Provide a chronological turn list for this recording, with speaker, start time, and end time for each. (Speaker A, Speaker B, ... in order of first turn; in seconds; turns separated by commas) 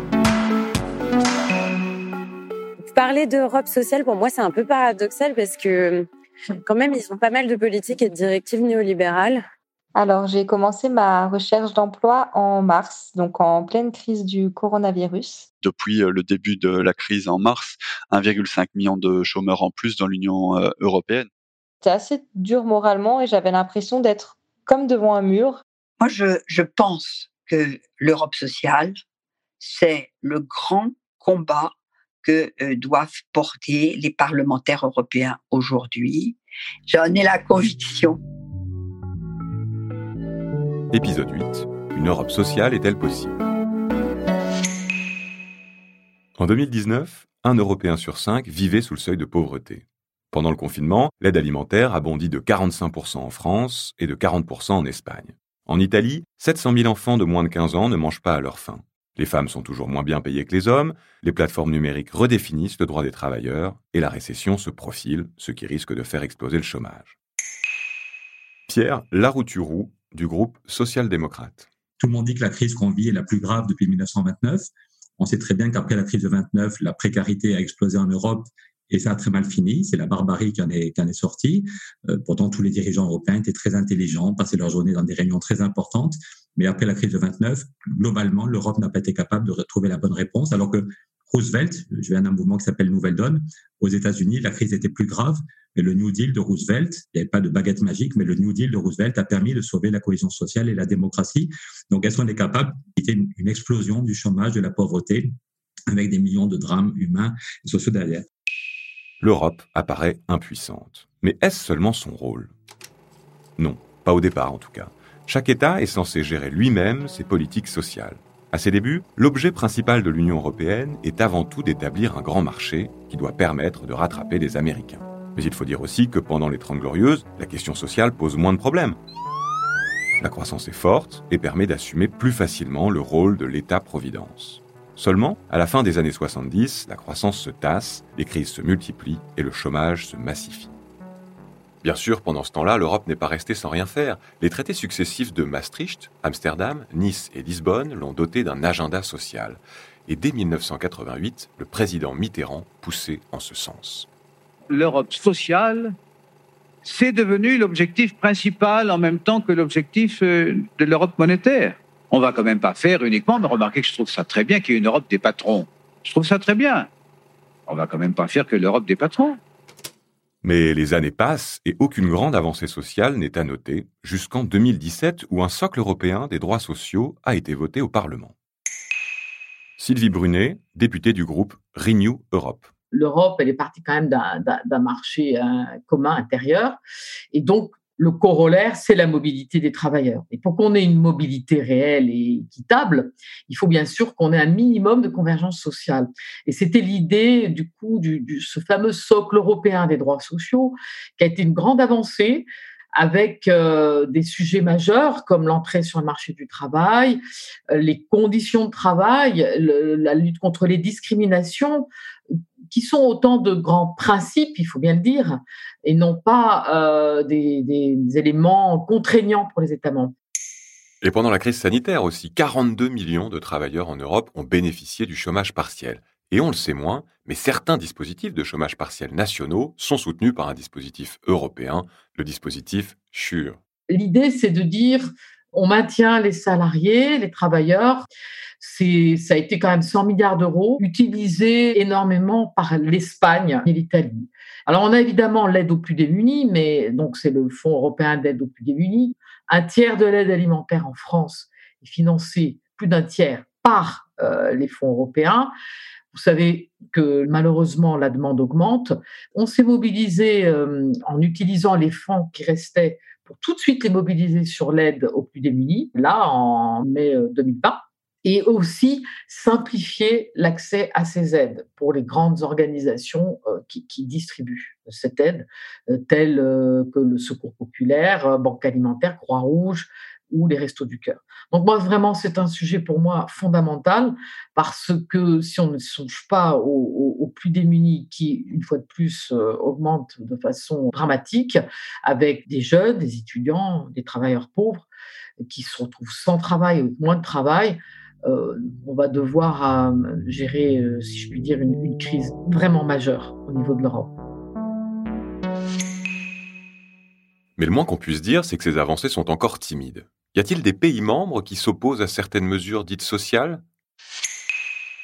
Speaker A: 2.9-6.1, Speaker A: 6.6-9.4, Speaker B: 9.9-15.4, Speaker C: 15.6-21.3, Speaker B: 21.8-25.6, Speaker D: 26.0-29.0, Speaker D: 29.6-31.7, Speaker D: 32.2-38.2, Speaker E: 40.9-43.5, Speaker E: 46.4-67.2, Speaker E: 68.7-71.7, Speaker F: 72.0-74.7, Speaker F: 75.2-105.3, Speaker F: 105.9-108.2, Speaker E: 109.2-112.5, Speaker E: 113.6-129.0, Speaker E: 130.2-140.7, Speaker E: 141.8-154.1, Speaker G: 154.7-156.0, Speaker G: 156.8-166.9, Speaker G: 167.7-169.4, Speaker E: 170.4-178.3, Speaker E: 179.8-182.7, Speaker H: 182.9-186.8, Speaker H: 187.3-207.2, Speaker H: 207.7-211.9, Speaker H: 212.7-220.1, Speaker E: 221.0-233.6, Speaker H: 233.9-238.1, Speaker H: 238.6-255.5, Speaker H: 256.1-294.9, Speaker H: 295.4-304.1, Speaker E: 307.6-313.6